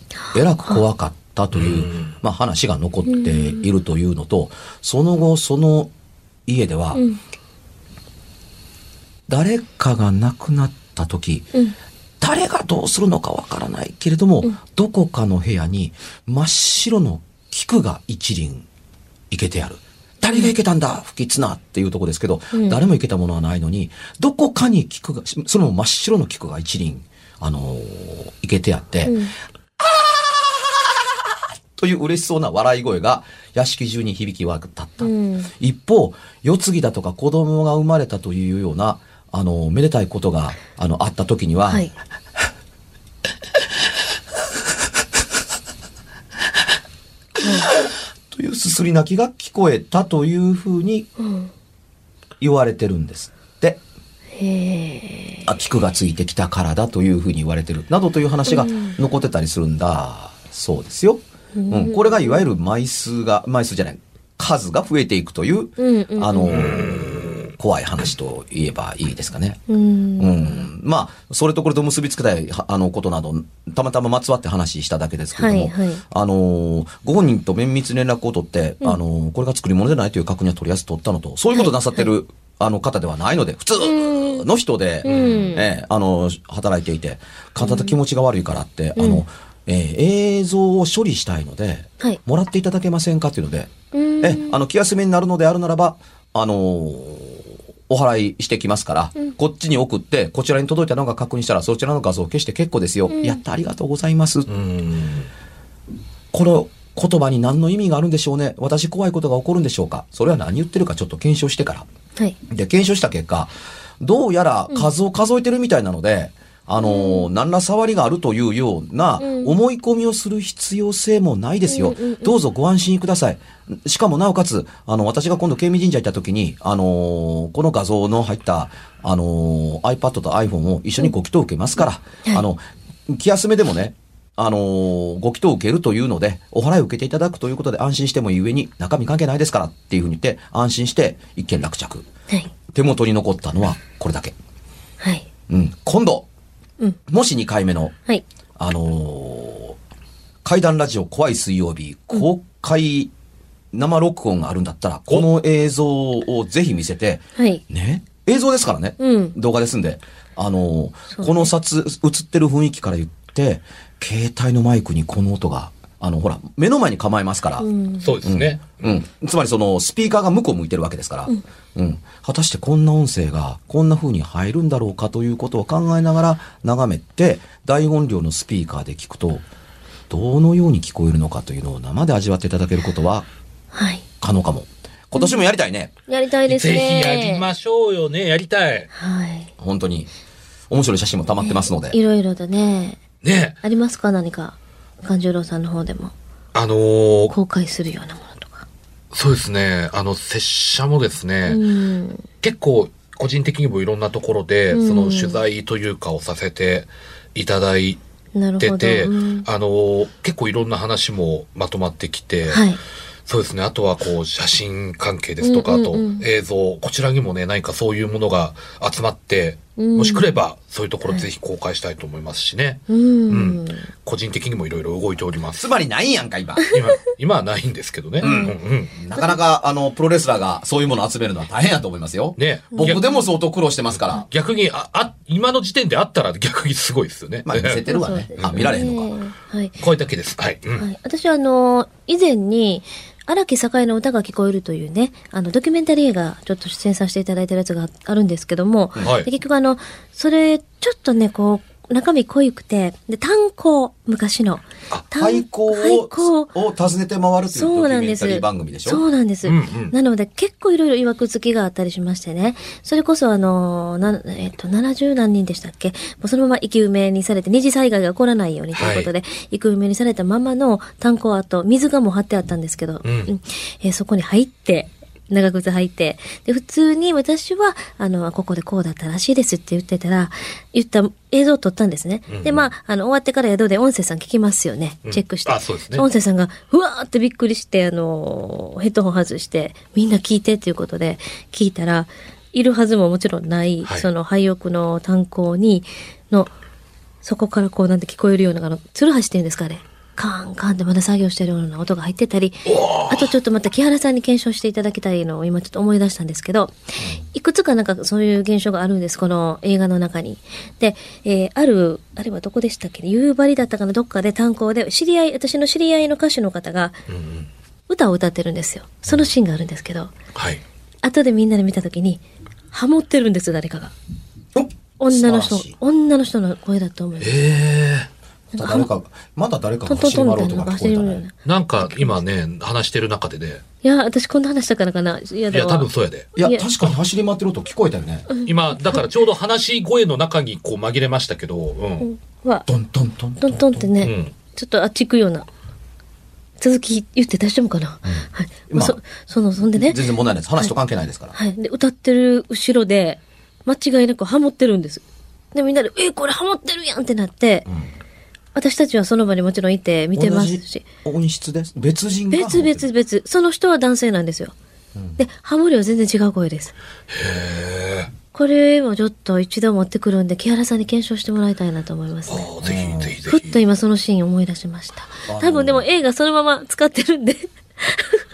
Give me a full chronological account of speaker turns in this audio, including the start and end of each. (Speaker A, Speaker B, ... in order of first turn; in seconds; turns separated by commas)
Speaker A: 0.3-0.8, Speaker B: 0.3-5.9, Speaker C: 1.5-2.1, Speaker A: 3.1-3.7, Speaker B: 6.5-7.0, Speaker B: 9.3-11.5, Speaker B: 12.2-18.6, Speaker B: 19.3-29.2, Speaker A: 22.5-22.8, Speaker A: 29.1-29.3, Speaker B: 29.8-41.9, Speaker A: 35.0-35.5, Speaker B: 47.4-51.1, Speaker A: 47.4-47.7, Speaker A: 51.2-51.5, Speaker B: 52.4-53.8, Speaker A: 54.3-55.5, Speaker B: 55.4-69.6, Speaker A: 58.5-59.0, Speaker A: 61.5-62.5, Speaker A: 65.8-66.8, Speaker C: 66.5-67.5, Speaker A: 69.7-70.5, Speaker B: 70.2-104.5, Speaker A: 75.3-76.0, Speaker A: 81.5-82.0, Speaker A: 83.8-84.4, Speaker A: 85.0-85.6, Speaker C: 85.0-85.5, Speaker A: 87.6-87.9, Speaker A: 89.0-89.2, Speaker A: 93.9-94.6, Speaker A: 103.1-103.4, Speaker C: 104.5-105.3, Speaker B: 106.3-111.9, Speaker B: 112.5-142.1, Speaker A: 116.8-117.3, Speaker A: 119.2-119.5, Speaker A: 121.7-122.3, Speaker B: 142.7-144.3, Speaker A: 145.0-145.3, Speaker B: 145.5-146.3, Speaker B: 147.1-147.9, Speaker B: 148.6-149.8, Speaker B: 150.4-153.1, Speaker B: 153.7-167.7, Speaker A: 157.4-157.6, Speaker A: 159.0-159.3, Speaker A: 161.1-161.4, Speaker A: 167.6-168.1, Speaker C: 168.0-169.0, Speaker B: 168.2-179.4, Speaker B: 180.1-183.3, Speaker A: 183.7-184.0, Speaker B: 184.2-185.9, Speaker A: 186.1-187.4, Speaker C: 186.5-188.9, Speaker A: 188.9-189.5, Speaker B: 189.6-190.1, Speaker B: 190.7-192.0, Speaker A: 191.4-193.0, Speaker C: 193.2-193.6, Speaker A: 193.6-196.1, Speaker C: 196.5-197.3, Speaker A: 197.3-198.7, Speaker C: 199.1-201.6, Speaker A: 201.5-202.2, Speaker C: 202.4-208.0, Speaker A: 204.7-205.4, Speaker A: 208.3-209.4, Speaker C: 208.6-212.7, Speaker A: 212.5-212.8, Speaker C: 213.3-225.7, Speaker A: 215.4-216.2, Speaker A: 219.8-220.2, Speaker A: 222.9-223.9, Speaker B: 225.6-226.7, Speaker C: 226.7-228.9, Speaker B: 228.2-234.2, Speaker A: 228.2-228.5, Speaker C: 232.4-233.1, Speaker A: 232.7-233.2, Speaker C: 234.1-237.8, Speaker B: 237.4-239.1, Speaker A: 237.9-239.7, Speaker C: 238.4-238.8, Speaker C: 239.8-240.8, Speaker A: 240.8-256.5, Speaker C: 249.0-249.3, Speaker B: 255.0-259.0, Speaker A: 257.5-296.5, Speaker C: 259.4-259.9, Speaker C: 268.7-269.1, Speaker C: 273.0-273.3, Speaker C: 282.3-282.7, Speaker C: 285.1-286.1, Speaker A: 297.2-317.0, Speaker C: 302.6-303.3, Speaker C: 317.1-317.5, Speaker A: 317.9-320.1, Speaker C: 320.3-320.6, Speaker A: 321.0-323.9, Speaker B: 324.5-325.8, Speaker A: 325.0-327.4, Speaker C: 327.2-328.1, Speaker A: 328.5-328.9, Speaker B: 328.5-331.2, Speaker A: 329.9-332.2, Speaker C: 331.4-333.6, Speaker A: 333.8-336.6, Speaker C: 335.5-337.0, Speaker B: 336.4-338.3, Speaker A: 338.3-339.0, Speaker C: 338.4-342.1, Speaker A: 342.0-342.7, Speaker B: 342.7-343.9, Speaker A: 343.4-345.5, Speaker C: 344.0-344.3, Speaker A: 346.6-350.0, Speaker B: 348.0-349.0, Speaker B: 349.7-351.4, Speaker A: 351.3-355.0, Speaker A: 355.5-357.7, Speaker B: 357.6-357.9, Speaker A: 358.5-360.8, Speaker B: 360.1-362.9, Speaker A: 362.3-364.5, Speaker A: 365.2-366.7, Speaker C: 367.1-368.1, Speaker A: 368.3-372.5, Speaker C: 372.3-373.6, Speaker B: 372.6-373.1, Speaker A: 373.3-378.2, Speaker B: 375.3-375.9